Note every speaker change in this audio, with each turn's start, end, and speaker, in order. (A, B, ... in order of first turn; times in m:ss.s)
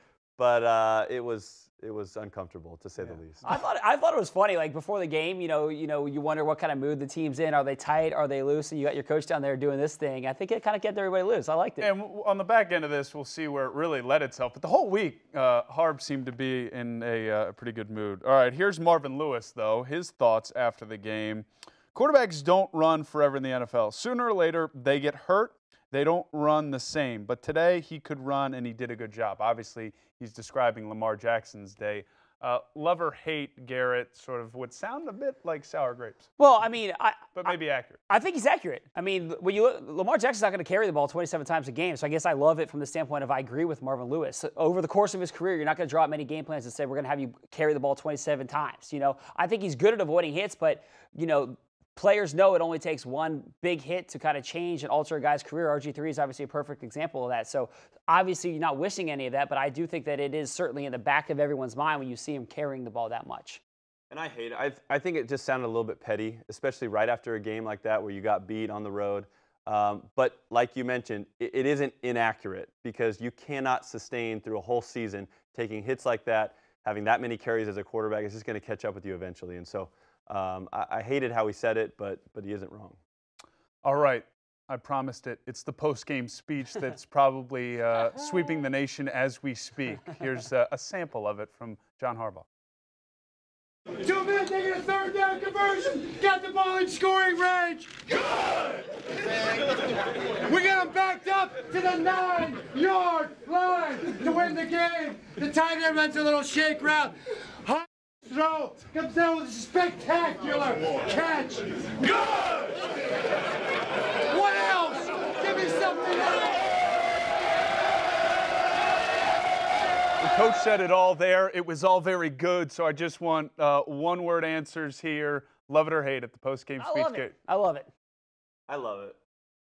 0:00.4-0:03.4 A
0:03.0-0:03.6 B
0:03.4-0:11.9 C
0:11.8-0:36.3 B
0:36.4-0:37.6 C
0:37.3-0:38.0 B
0:38.1-1:03.6 C
1:04.1-1:23.0 A
1:23.8-1:32.5 B
1:34.0-1:38.1 D
1:39.2-1:39.8 D
1:40.4-1:52.6 D
1:54.2-1:56.6 D
2:00.2-2:07.3 B
2:06.8-2:07.9 C
2:08.7-2:09.2 A